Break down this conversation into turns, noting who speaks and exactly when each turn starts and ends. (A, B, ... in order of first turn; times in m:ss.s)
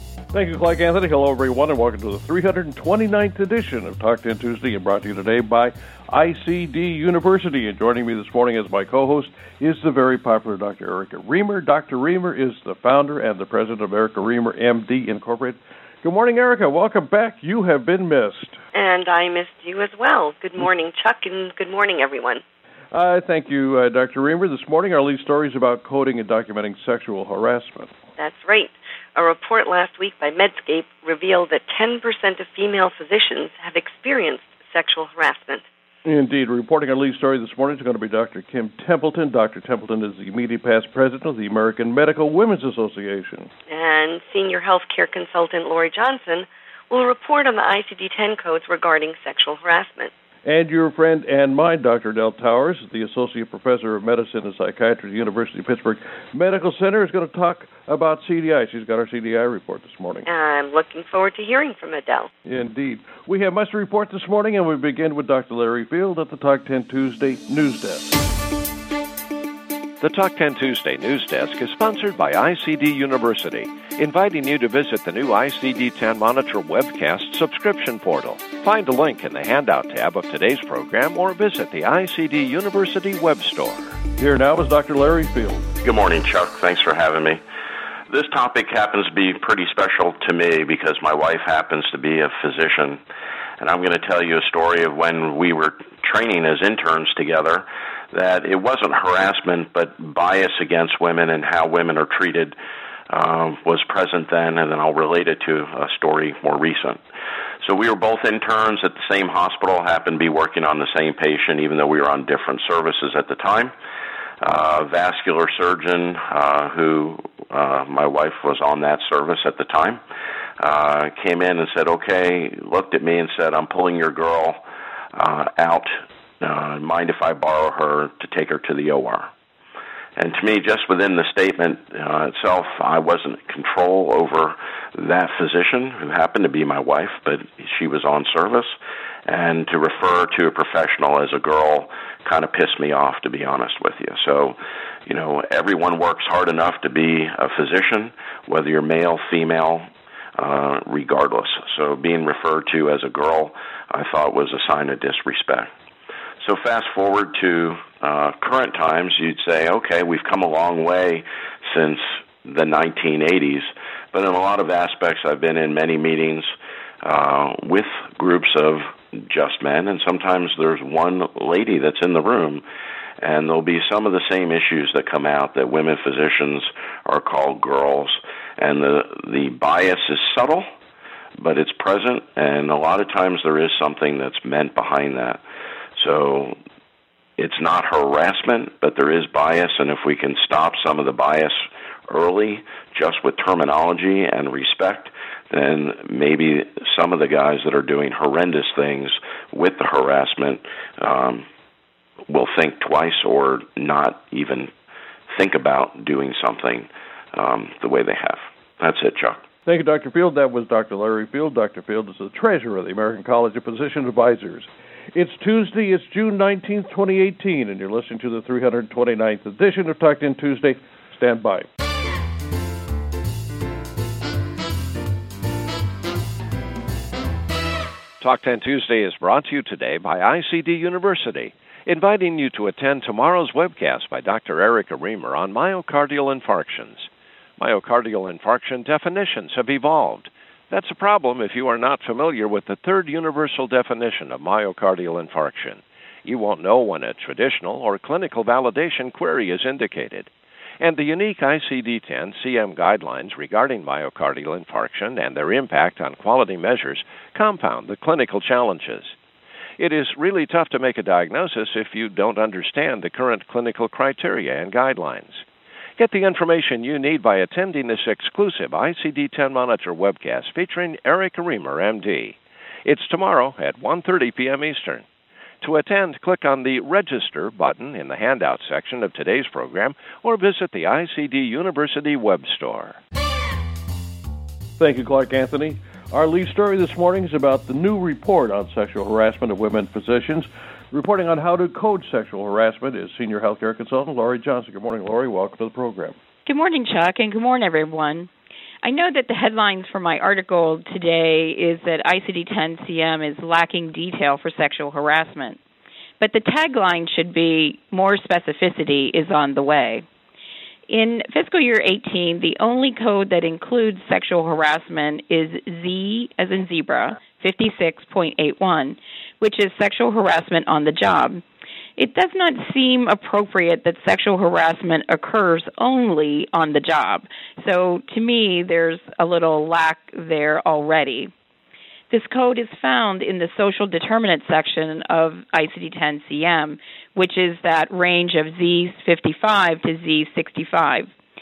0:00.3-0:18.6 A
0:18.7-0:22.4 B
0:22.9-0:27.9 A
0:28.2-0:35.6 B
0:36.0-0:43.5 A
0:43.7-0:50.1 B
0:50.4-1:00.3 A
1:00.2-1:02.3 B
1:02.4-1:08.2 A
1:10.0-1:23.9 C
1:24.2-1:25.7 A
1:25.8-1:27.4 D
1:28.1-1:33.0 D
1:33.6-1:42.6 D
1:43.1-1:47.0 D
1:47.6-1:53.7 D
1:54.4-2:00.0 D
2:00.6-2:04.6 D
2:05.2-2:09.3 D
2:10.2-2:18.7 D
2:19.3-2:35.7 D
2:36.4-2:46.5 D
2:47.0-2:52.6 D
2:53.2-3:00.6 D
3:01.4-3:05.4 D
3:06.0-3:06.6 D
3:07.4-3:21.4 D
3:22.3-3:24.7 D
3:25.3-3:29.4 D
3:29.6-3:41.7 A
3:48.2-4:19.2 C
4:19.8-4:25.4 C
4:26.0-4:35.0 C
4:35.6-4:43.0 C
4:44.8-4:56.2 A
4:56.4-4:58.3 E
4:58.8-5:05.6 E
5:06.2-5:10.0 E
5:10.9-5:21.4 E
5:22.0-5:31.3 E
5:32.1-5:41.1 E